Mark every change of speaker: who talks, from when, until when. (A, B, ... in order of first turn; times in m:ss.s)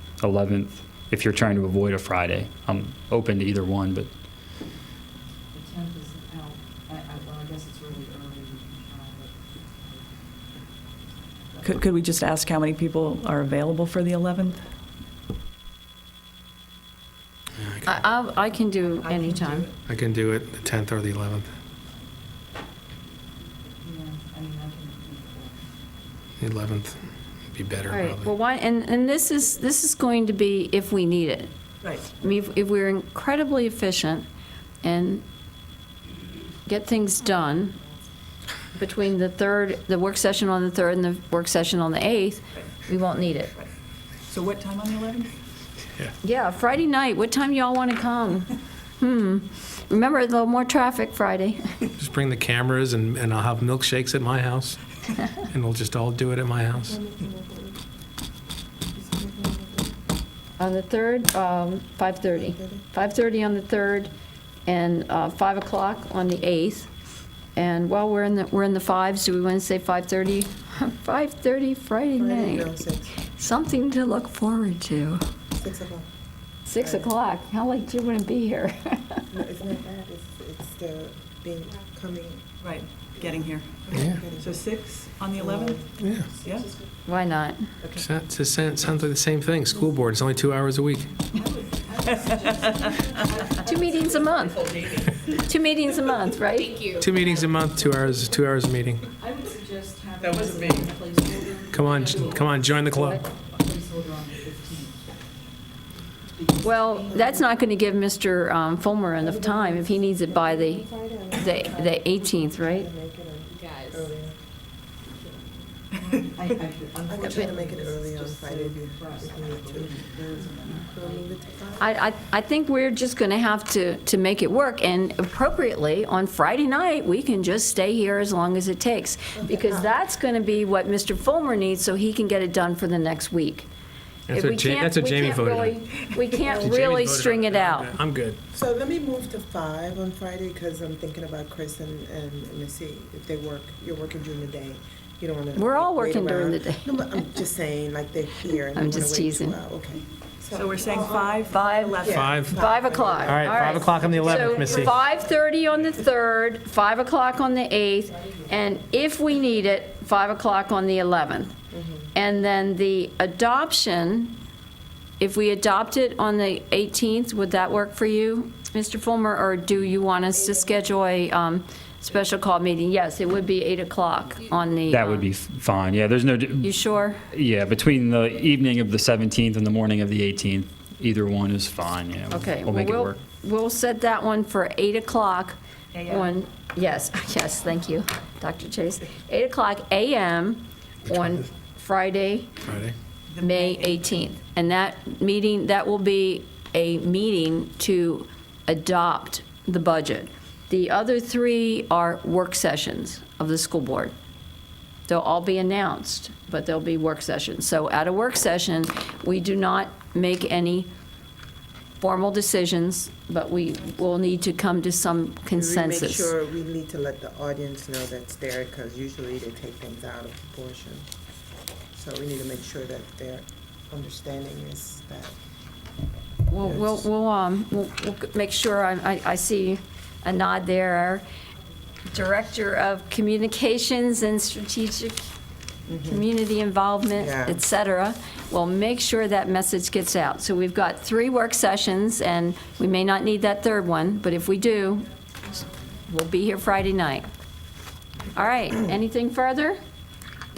0:00.2-0:04.1 A
0:05.5-0:10.1 B
0:11.4-0:11.7 B
0:11.6-0:14.6 C
0:17.6-0:18.0 D
0:17.8-0:19.7 E
0:19.8-0:21.5 D
0:23.8-0:25.6 C
0:26.4-0:27.0 D
0:27.5-0:28.3 D
0:27.9-0:31.5 E
0:32.1-0:34.2 E
0:34.8-0:35.2 E
0:36.6-0:37.8 E
0:38.7-0:43.5 E
0:44.2-0:45.3 C
0:46.2-0:51.6 E
0:52.0-0:54.8 D
0:55.5-0:57.0 D
0:56.7-0:57.8 F
0:58.9-1:00.0 F
1:00.6-1:04.1 E
1:02.3-1:02.8 F
1:04.6-1:06.9 E
1:07.5-1:12.7 E
1:12.2-1:13.2 F
1:13.3-1:15.2 E
1:15.5-1:16.1 F
1:16.7-1:19.2 E
1:16.8-1:17.1 F
1:19.3-1:22.5 F
1:22.6-1:25.9 C
1:23.2-1:24.6 F
1:23.9-1:24.3 D
1:25.3-1:26.9 F
1:26.0-1:26.3 D
1:26.4-1:26.7 C
1:27.0-1:27.7 E
1:28.0-1:31.1 D
1:31.4-1:34.2 B
1:32.0-1:33.0 C
1:33.6-1:34.7 E
1:35.4-1:36.9 E
1:36.6-1:37.5 B
1:37.0-1:39.1 D
1:39.2-1:45.0 B
1:40.3-1:40.9 F
1:41.7-1:43.2 D
1:46.3-1:47.1 B
1:46.6-1:52.9 E
1:47.0-1:47.4 F
1:49.2-1:54.4 F
1:53.6-1:54.0 B
1:56.1-2:01.5 B
1:57.1-2:00.2 F
1:57.2-1:57.5 E
2:00.7-2:02.0 F
2:01.8-2:13.7 E
2:09.3-2:09.9 F
2:14.3-2:15.8 D
2:14.3-2:17.9 E
2:16.4-2:18.4 D
2:16.4-2:16.8 F
2:18.5-2:35.0 F
2:25.5-2:27.0 E
2:28.7-2:29.6 E
2:30.5-2:32.3 C
2:32.1-2:32.6 D
2:32.5-2:41.5 E
2:33.2-2:35.0 D
2:41.7-2:42.1 F
2:42.1-2:44.3 E
2:45.2-2:55.2 E
2:54.9-2:56.7 A
2:56.6-2:57.2 E
2:57.3-3:03.2 A
3:02.3-3:12.6 E
3:05.9-3:06.3 C
3:12.6-3:12.9 D
3:13.3-3:14.2 C
3:13.4-3:24.1 E
3:25.1-3:30.9 E
3:32.0-3:36.3 E
3:35.5-3:41.0 F
3:41.9-3:45.3 F
3:46.5-3:51.2 E
3:46.6-3:47.0 F
3:52.1-3:55.3 E
3:55.8-3:56.2 F
3:56.1-4:05.1 E
3:57.1-3:57.6 F
4:06.0-4:07.2 E
4:08.3-4:09.8 E